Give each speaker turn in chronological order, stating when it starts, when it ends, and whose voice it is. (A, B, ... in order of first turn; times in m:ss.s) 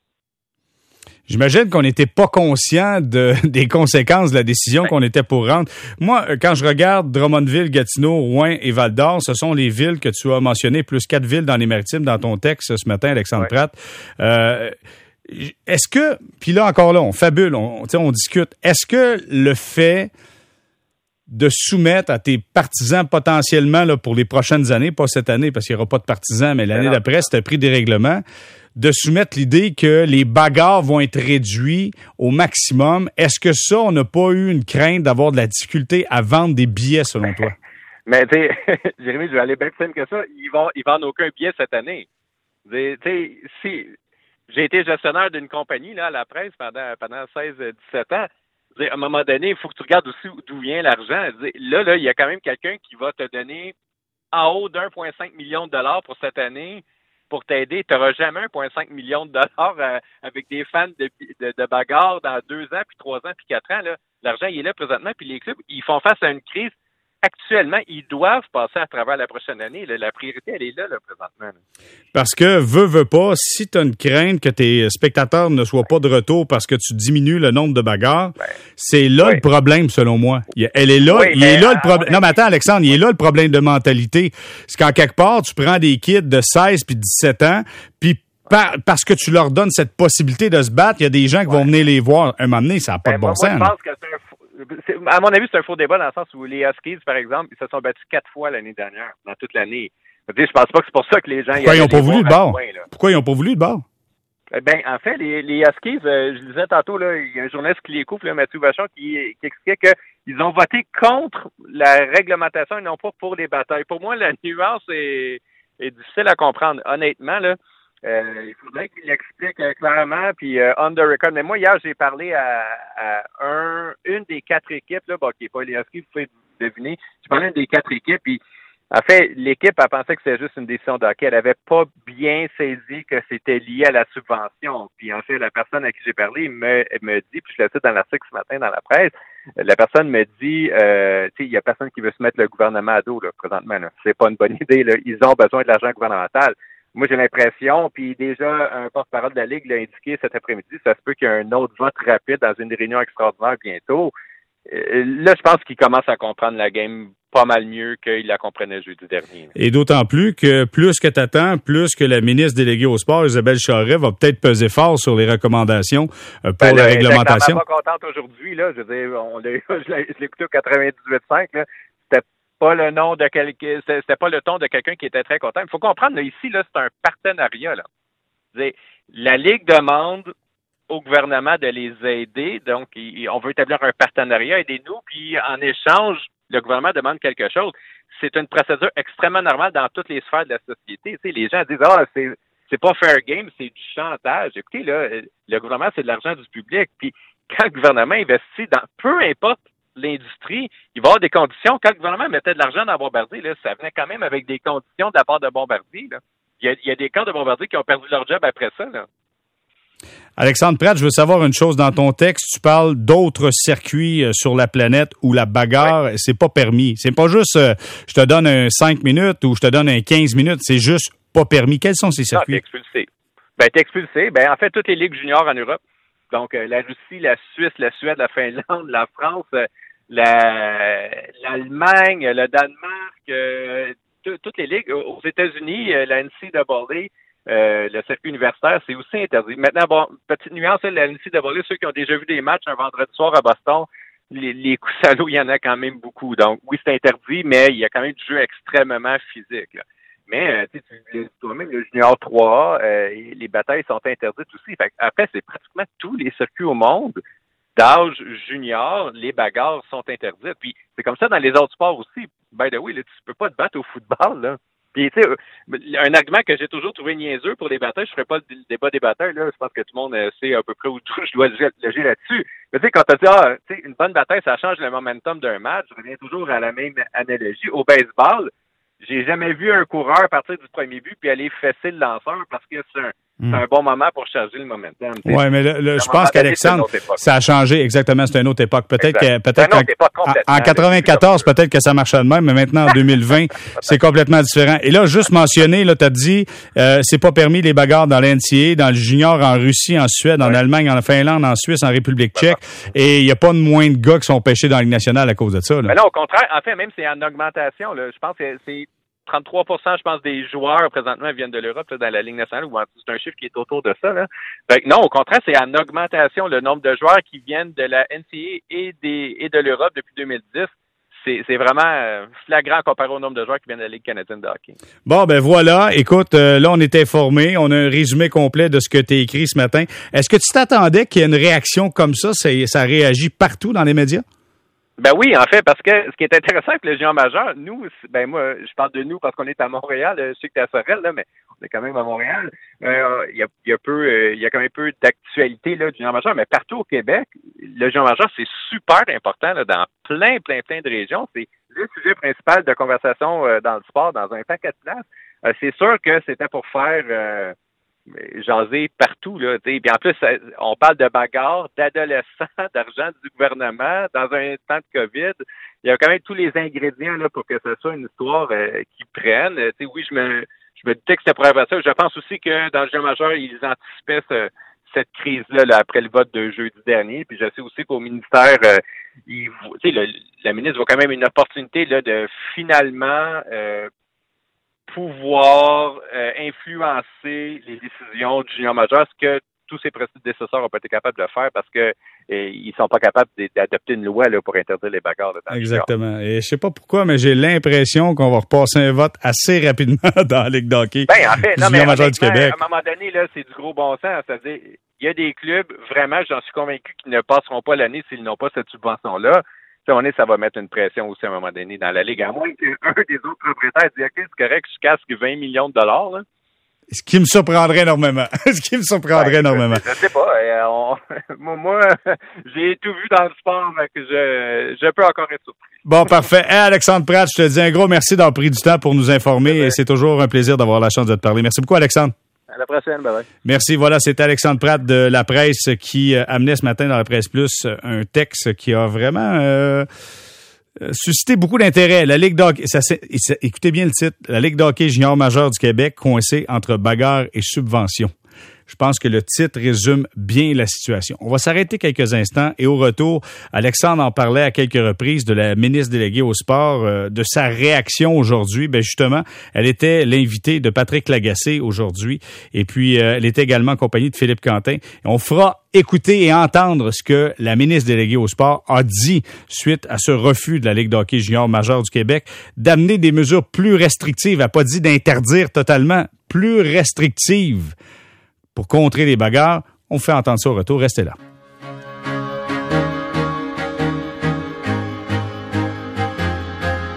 0:01.3-0:14.8 A
0:15.3-0:20.1 A
0:21.3-0:28.2 A
0:26.8-0:27.0 B
0:28.8-0:37.5 A
0:38.1-0:42.1 B
0:42.7-0:43.9 B
0:44.5-0:53.7 B
0:54.3-1:11.6 B
1:12.1-1:33.7 A
1:21.1-1:22.4 B
1:33.0-1:42.9 B
1:41.5-1:43.8 A
1:44.5-2:34.1 B
2:34.7-2:39.5 B
2:39.6-2:47.6 A
2:46.6-2:57.8 B
2:58.5-3:00.3 B
3:00.9-3:29.1 B
3:30.4-3:42.6 A
3:42.3-3:45.8 B
3:46.3-4:17.2 B
4:17.8-4:38.5 B
4:39.0-4:45.4 B
4:45.2-5:05.9 A
4:46.0-4:47.2 B
4:49.0-4:51.5 B
5:05.9-5:24.8 B
5:25.1-5:34.2 A
5:35.0-5:57.6 B
5:58.1-6:23.9 B
6:24.9-6:35.9 B
6:35.5-6:42.6 A
6:41.1-6:56.2 B
6:56.9-6:59.8 A
6:59.1-7:05.8 B
7:05.8-7:12.1 A
7:09.5-7:09.8 B
7:12.5-7:13.3 B
7:13.4-7:19.9 A
7:20.8-7:28.1 A
7:28.7-7:57.7 A
7:58.6-8:01.2 A